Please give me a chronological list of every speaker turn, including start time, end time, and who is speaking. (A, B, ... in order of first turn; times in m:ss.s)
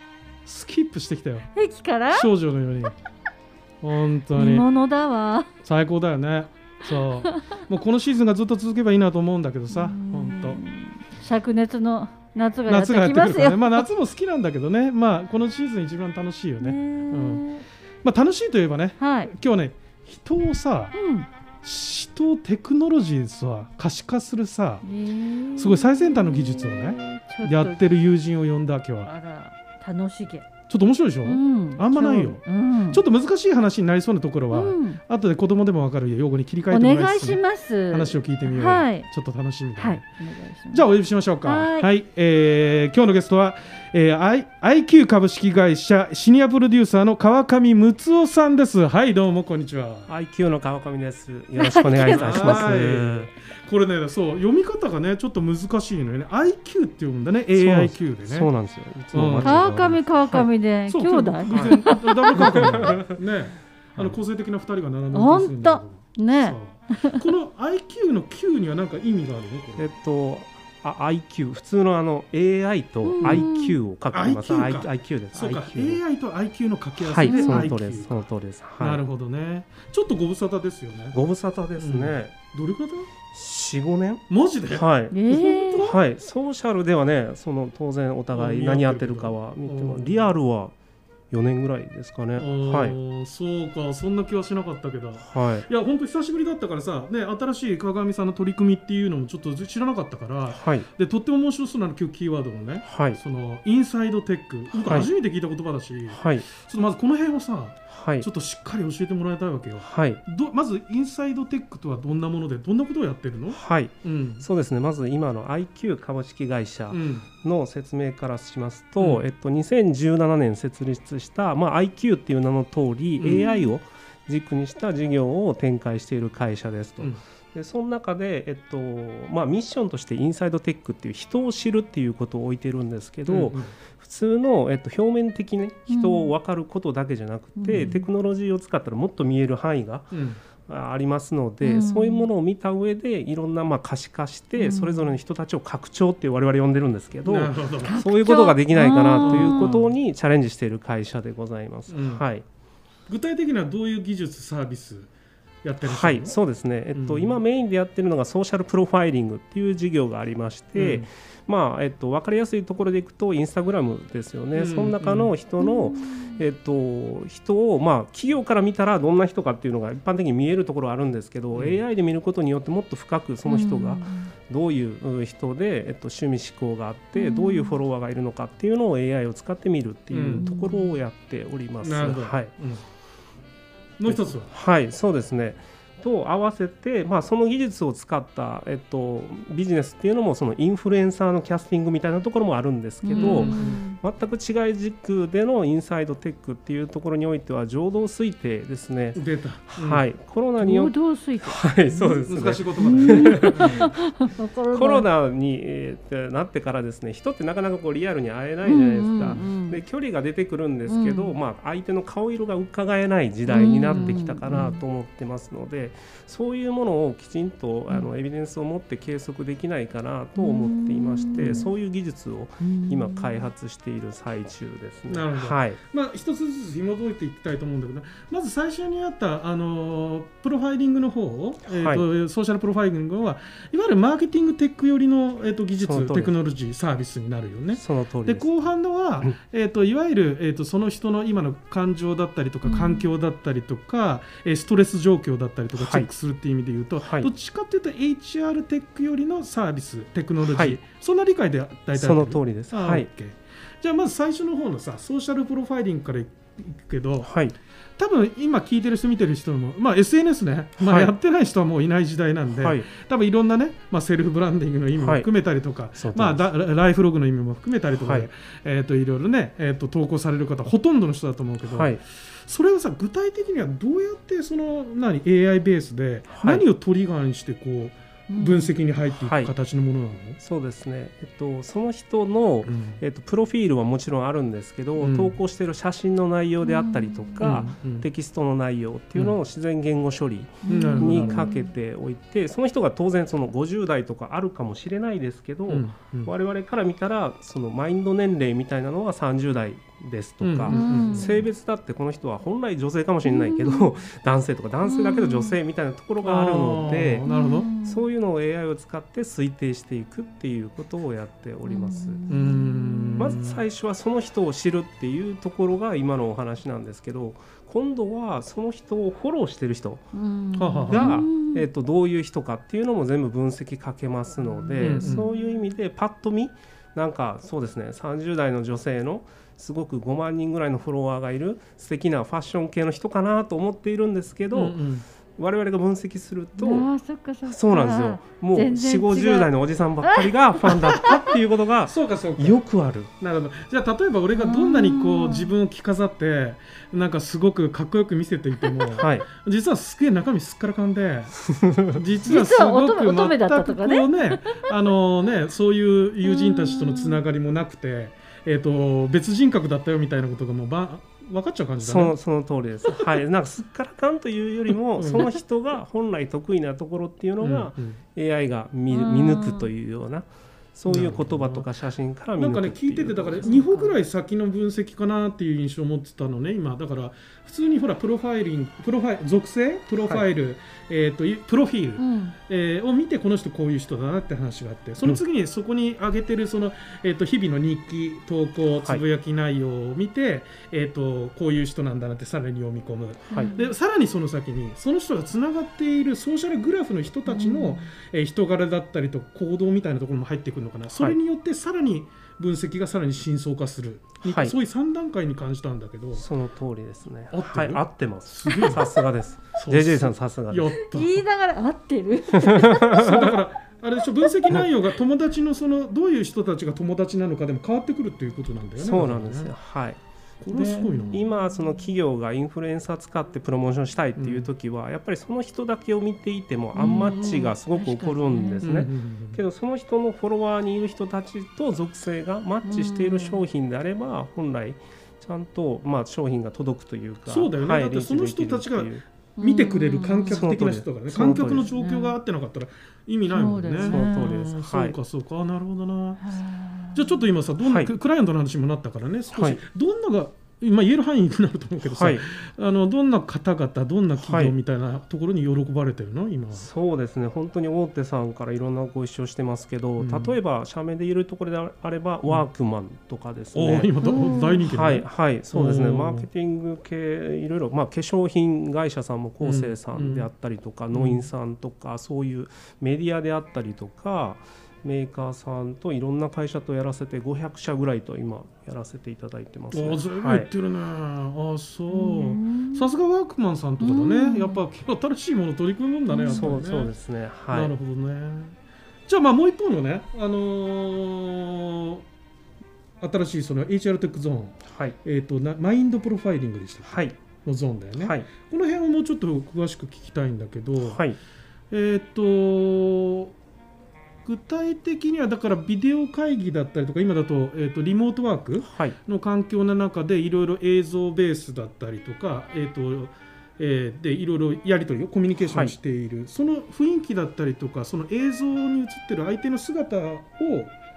0:00.4-0:01.5 A
0:01.6-0:02.3 B
0:02.1-0:03.0 A
0:03.8-0:04.7 A
0:04.4-0:05.5 B
0:05.6-0:10.6 A
0:09.7-0:13.9 B
0:12.7-0:17.5 A
0:16.6-0:17.6 B
0:18.0-0:21.0 A
0:19.0-0:19.3 B
0:21.0-0:21.3 B
0:21.6-0:24.8 A
0:24.8-0:27.8 B
0:25.6-0:29.1 A
0:29.0-0:30.5 B
0:30.7-0:40.1 A
0:31.2-0:33.0 B
0:34.5-0:35.0 B
0:36.7-0:39.1 B
0:39.8-0:40.9 B
0:40.7-0:50.1 A
0:41.4-0:41.9 B
0:50.1-0:53.3 C
0:51.6-0:52.6 B
0:52.0-0:58.5 A
0:57.5-1:00.5 C
0:59.1-0:59.6 A
0:59.4-1:02.9 B
1:00.9-1:09.9 A
1:01.5-1:03.2 C
1:05.1-1:07.2 B
1:09.8-1:16.0 C
1:13.0-1:13.8 B
1:13.2-1:13.5 A
1:14.1-1:18.2 A
1:17.0-1:19.0 C
1:17.2-1:17.7 B
1:18.8-1:21.2 A
1:21.1-1:22.3 C
1:21.8-1:23.1 A
1:23.3-1:30.8 C
1:24.3-1:26.0 A
1:25.1-1:25.9 B
1:28.3-1:30.3 A
1:31.3-1:33.0 C
1:32.4-1:54.4 A
1:35.2-1:35.7 C
1:40.5-1:40.9 C
1:42.8-1:43.2 C
1:46.1-1:46.5 C
1:47.9-1:48.3 C
1:49.8-1:50.2 C
1:53.5-2:32.4 C
1:56.9-1:57.2 A
1:59.0-1:59.2 A
2:03.2-2:03.5 A
2:13.3-2:13.8 A
2:15.9-2:16.3 B
2:17.6-2:18.0 B
2:20.1-2:20.4 A
2:21.6-2:22.3 B
2:24.6-2:25.1 B
2:27.2-2:28.0 A
2:27.8-2:29.7 B
2:29.2-2:29.9 A
2:31.9-2:32.2 A
2:33.1-2:35.1 A
2:35.6-2:36.4 A
2:35.8-3:02.5 C
2:36.9-2:37.4 A
2:40.8-2:41.1 A
2:44.5-2:45.3 A
2:45.6-2:46.4 B
2:51.5-2:51.8 A
2:53.4-2:54.3 B
2:57.2-2:57.8 B
3:00.1-3:00.5 A
3:00.4-3:00.9 B
3:01.8-3:02.8 A
3:04.0-3:04.5 A
3:04.1-3:24.0 C
3:13.0-3:14.0 B
3:13.1-3:13.8 A
3:19.2-3:20.0 A
3:20.6-3:21.8 B
3:22.0-3:23.9 A
3:22.8-3:25.1 B
3:24.7-3:45.8 C
3:28.6-3:29.8 B
3:30.9-3:31.3 B
3:33.5-3:34.8 B
3:40.4-3:41.7 B
3:41.4-3:41.6 A
3:42.6-3:43.5 B
3:45.1-4:17.3 A
3:51.7-3:52.1 C
3:55.8-3:56.3 C
3:57.7-3:58.5 C
4:02.6-4:03.1 B
4:05.8-4:06.1 C
4:07.0-4:07.3 C
4:10.4-4:10.8 C
4:11.9-4:13.1 C
4:17.2-4:17.6 C
4:18.0-4:40.4 A
4:20.8-4:21.1 C
4:22.6-4:22.9 C
4:25.0-4:25.3 C
4:26.0-4:26.4 C
4:28.0-4:28.3 C
4:31.7-4:32.0 C
4:36.3-4:36.6 C
4:38.3-4:38.7 B
4:39.2-4:39.5 C
4:40.4-5:07.3 C
4:42.6-4:43.0 A
4:45.0-4:45.4 A
4:46.6-4:47.6 B
4:47.4-4:48.1 A
4:50.6-4:51.7 B
4:50.7-4:51.5 A
4:55.7-4:56.3 A
5:00.4-5:01.4 A
5:00.7-5:01.4 B
5:03.2-5:03.9 B
5:04.8-5:05.6 B
5:06.2-5:07.7 A
5:07.2-5:08.0 B
5:07.8-5:12.2 C
5:11.6-5:13.4 B
5:12.3-5:13.6 A
5:13.2-5:20.1 C
5:20.1-5:21.7 B
5:20.6-5:21.2 A
5:20.9-5:34.8 C
5:24.5-5:25.4 B
5:24.8-5:25.2 A
5:34.5-5:35.1 A
5:35.3-5:36.9 C
5:36.6-5:39.5 B
5:37.4-5:43.1 C
5:40.0-5:41.2 B
5:41.9-5:42.6 A
5:43.2-6:02.1 A
5:44.3-5:45.5 B
5:48.9-5:49.2 C
5:51.5-5:52.0 C
5:52.2-5:54.7 B
5:56.2-5:57.2 B
6:01.8-6:13.6 C
6:05.0-6:05.3 A
6:07.4-6:08.0 A
6:08.9-6:09.7 B
6:10.9-6:11.7 A
6:12.4-6:46.2 A
6:13.4-6:13.9 B
6:22.0-6:22.3 B
6:33.3-6:33.5 C
6:33.3-6:33.7 B
6:37.2-6:37.9 B
6:44.2-6:44.6 C
6:46.1-6:50.8 C
6:47.3-6:49.0 A
6:49.6-6:51.2 A
6:50.9-6:53.3 B
6:52.3-6:53.3 C
6:52.9-6:59.5 A
6:58.8-7:19.0 C
7:00.4-7:01.2 A
7:04.2-7:04.5 A
7:06.8-7:08.7 B
7:08.6-7:09.4 A
7:12.6-7:13.4 B
7:17.3-7:26.3 A
7:19.4-7:20.4 B
7:20.3-7:21.7 C
7:21.6-7:22.2 B
7:23.3-7:24.4 B
7:23.8-7:25.0 C
7:26.2-7:27.2 B
7:26.9-7:36.7 A
7:27.6-7:27.9 C
7:29.3-7:29.6 C
7:31.8-7:32.3 C
7:34.2-7:34.5 C
7:36.5-7:43.9 C
7:40.0-7:40.4 A
7:43.6-7:46.3 A
7:44.0-7:44.6 B
7:44.7-8:00.5 C
7:49.4-7:50.3 A
7:50.9-7:51.3 A
7:59.7-8:06.9 A
8:01.9-8:02.9 B
8:03.8-8:04.6 B
8:06.1-8:06.5 B
8:06.3-8:07.7 C
8:07.5-8:12.0 A
8:13.0-8:21.0 A
8:14.7-8:15.0 C
8:16.8-8:17.2 C
8:18.0-8:18.3 C
8:20.8-8:21.2 C
8:21.7-8:23.3 A
8:24.2-8:40.8 A
8:28.6-8:29.0 C
8:35.5-8:35.8 C